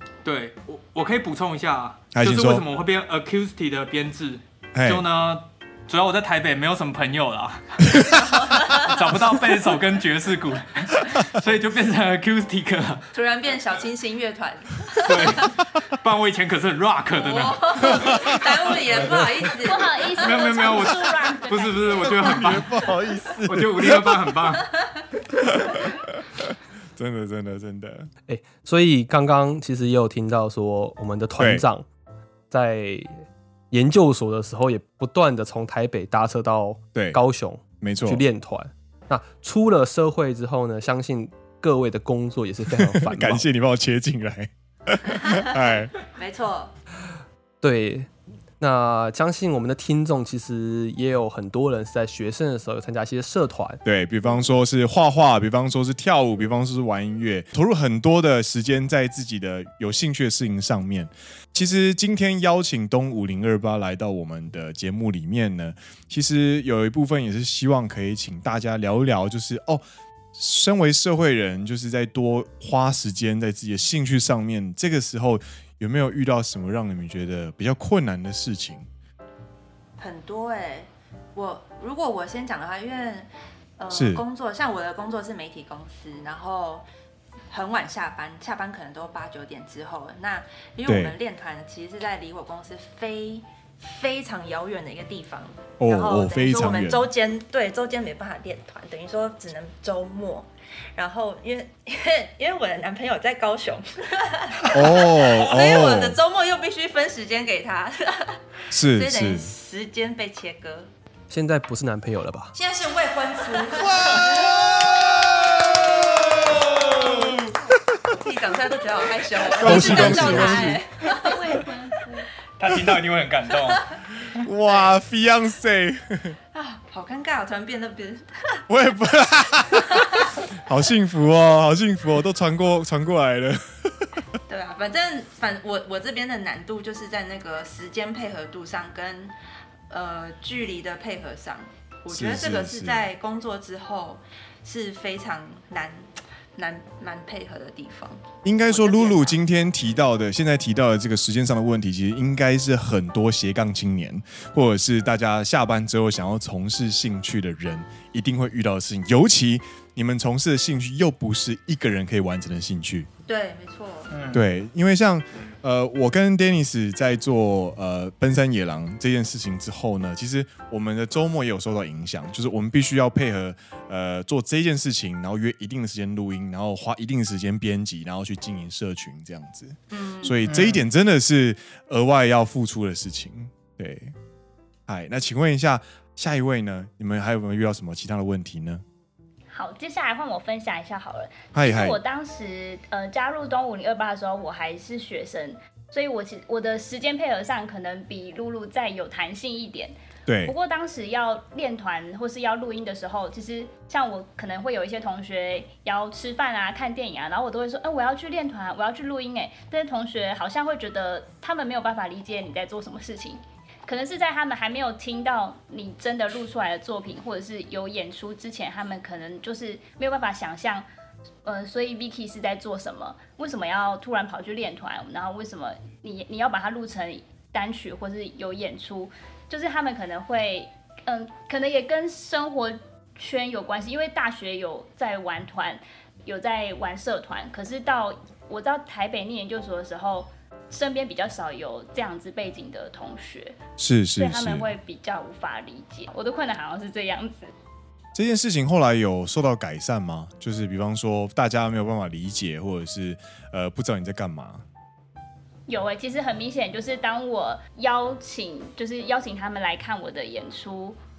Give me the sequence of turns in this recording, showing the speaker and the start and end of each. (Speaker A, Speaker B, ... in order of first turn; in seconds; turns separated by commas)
Speaker A: 0.2-7.6, Speaker B: 2.1-2.6, Speaker B: 4.7-5.0, Speaker C: 7.9-9.0, Speaker A: 8.8-13.0, Speaker C: 13.1-15.5, Speaker A: 15.0-18.0, Speaker C: 17.1-20.9, Speaker B: 17.9-18.3, Speaker D: 19.6-22.2, Speaker A: 20.2-22.7, Speaker B: 22.1-24.3, Speaker A: 23.4-24.7, Speaker B: 25.4-28.1, Speaker E: 28.3-31.9, Speaker B: 31.4-31.6, Speaker E: 32.5-43.5, Speaker B: 36.9-37.2, Speaker B: 37.8-38.2, Speaker B: 42.7-45.9, Speaker C: 45.3-46.7, Speaker E: 47.6-53.8, Speaker B: 53.8-69.8, Speaker B: 70.3-78.9, Speaker C: 80.0-86.8, Speaker B: 83.9-84.2, Speaker C: 87.5-110.9, Speaker B: 90.8-91.2, Speaker B: 95.8-97.1, Speaker B: 104.7-106.2, Speaker B: 108.7-109.5, Speaker E: 111.3-112.5, Speaker C: 112.5-114.7, Speaker B: 113.7-117.3, Speaker C: 115.7-117.4, Speaker C: 118.1-121.6, Speaker B: 119.5-120.8, Speaker E: 119.6-120.7, Speaker D: 121.5-121.9, Speaker A: 122.6-123.8, Speaker B: 124.4-126.4, Speaker C: 124.7-125.0, Speaker C: 126.5-128.6, Speaker B: 128.7-134.2, Speaker C: 129.8-130.4, Speaker C: 134.5-139.3, Speaker C: 139.9-149.4, Speaker B: 142.1-143.1, Speaker B: 148.4-163.1, Speaker C: 163.2-164.1, Speaker A: 164.1-164.4, Speaker B: 164.3-184.1, Speaker C: 179.9-180.4, Speaker A: 180.5-180.8, Speaker B: 184.9-188.8, Speaker D: 189.5-199.9, Speaker B: 191.5-192.0, Speaker B: 200.3-200.5, Speaker D: 200.4-220.8, Speaker D: 221.4-243.6, Speaker B: 243.8-244.7, Speaker D: 244.2-247.5, Speaker B: 248.1-254.6, Speaker D: 255.7-261.0